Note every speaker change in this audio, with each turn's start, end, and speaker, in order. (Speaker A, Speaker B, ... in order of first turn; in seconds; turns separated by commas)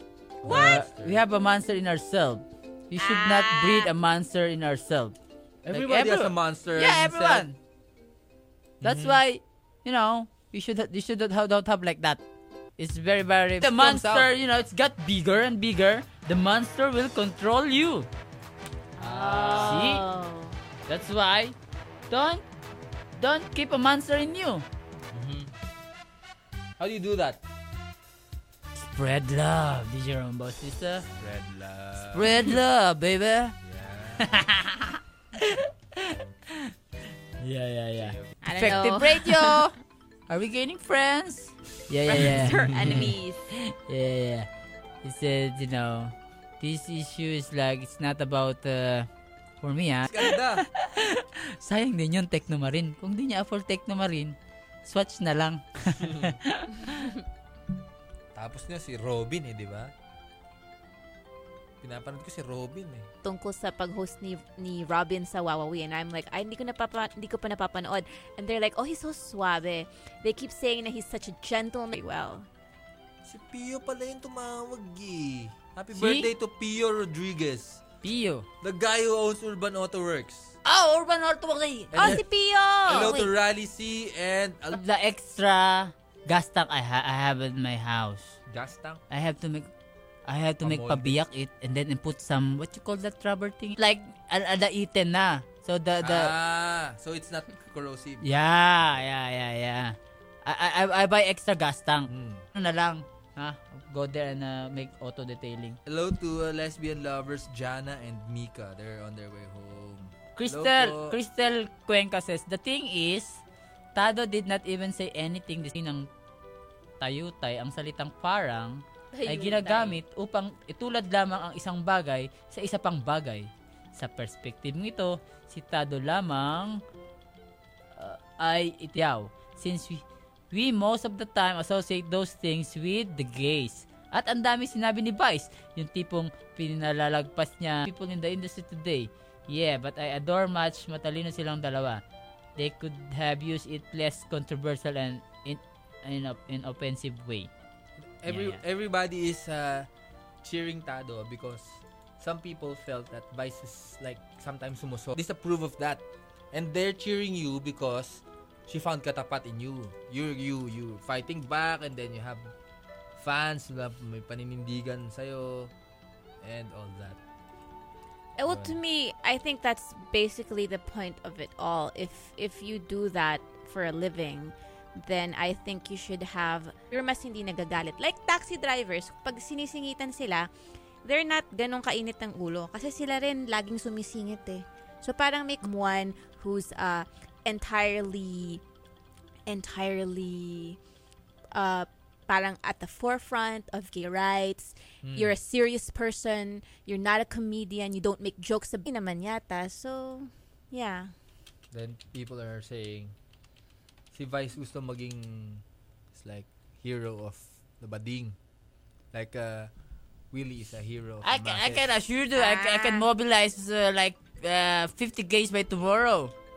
Speaker A: 0.4-1.2, Speaker B: 0.4-0.8, Speaker C: 0.5-5.2, Speaker B: 3.0-3.9, Speaker A: 5.6-7.5, Speaker C: 5.7-7.5, Speaker A: 8.8-9.2, Speaker C: 8.8-12.2, Speaker C: 12.8-18.1, Speaker A: 13.6-14.3, Speaker B: 19.0-20.6, Speaker A: 19.0-19.9, Speaker C: 19.1-20.0, Speaker C: 20.9-21.5, Speaker C: 22.1-22.4, Speaker C: 23.1-24.6, Speaker A: 25.1-25.5, Speaker A: 26.8-27.4, Speaker C: 28.8-31.1, Speaker A: 31.2-32.4, Speaker C: 32.0-33.5, Speaker A: 33.6-34.3, Speaker C: 34.2-36.7, Speaker C: 37.4-39.7, Speaker A: 38.0-38.8, Speaker B: 38.4-39.7, Speaker C: 40.3-44.5, Speaker B: 42.0-43.5, Speaker A: 42.4-43.1, Speaker C: 45.0-49.1, Speaker C: 49.6-57.1, Speaker A: 50.0-50.6, Speaker A: 55.9-56.4, Speaker A: 58.3-59.9, Speaker A: 61.8-63.1, Speaker B: 63.2-72.5, Speaker A: 73.2-77.8, Speaker C: 75.9-76.3, Speaker C: 78.0-78.5, Speaker A: 78.6-80.6, Speaker C: 80.6-82.2, Speaker A: 81.9-82.2, Speaker B: 82.0-83.3, Speaker A: 82.8-84.8, Speaker C: 84.7-88.4, Speaker A: 88.5-89.0, Speaker C: 89.1-89.7, Speaker C: 90.2-96.3, Speaker A: 90.6-91.2, Speaker A: 96.0-98.3, Speaker C: 98.2-105.8, Speaker A: 102.1-102.5, Speaker A: 105.8-111.1, Speaker C: 110.3-113.4, Speaker C: 113.9-116.1, Speaker C: 117.0-126.8, Speaker B: 119.1-120.0, Speaker C: 128.0-142.0, Speaker C: 142.6-147.5, Speaker A: 148.2-149.9, Speaker C: 148.3-148.6, Speaker A: 150.4-162.5, Speaker A: 163.2-165.7, Speaker A: 166.4-167.2, Speaker B: 168.4-180.5, Speaker A: 168.5-168.8, Speaker B: 181.0-188.6, Speaker B: 189.5-190.8, Speaker B: 191.5-201.1, Speaker A: 195.0-195.3, Speaker A: 201.7-203.1, Speaker A: 204.1-208.3, Speaker A: 209.1-209.7, Speaker A: 210.3-211.9, Speaker C: 211.2-216.3, Speaker B: 212.3-213.1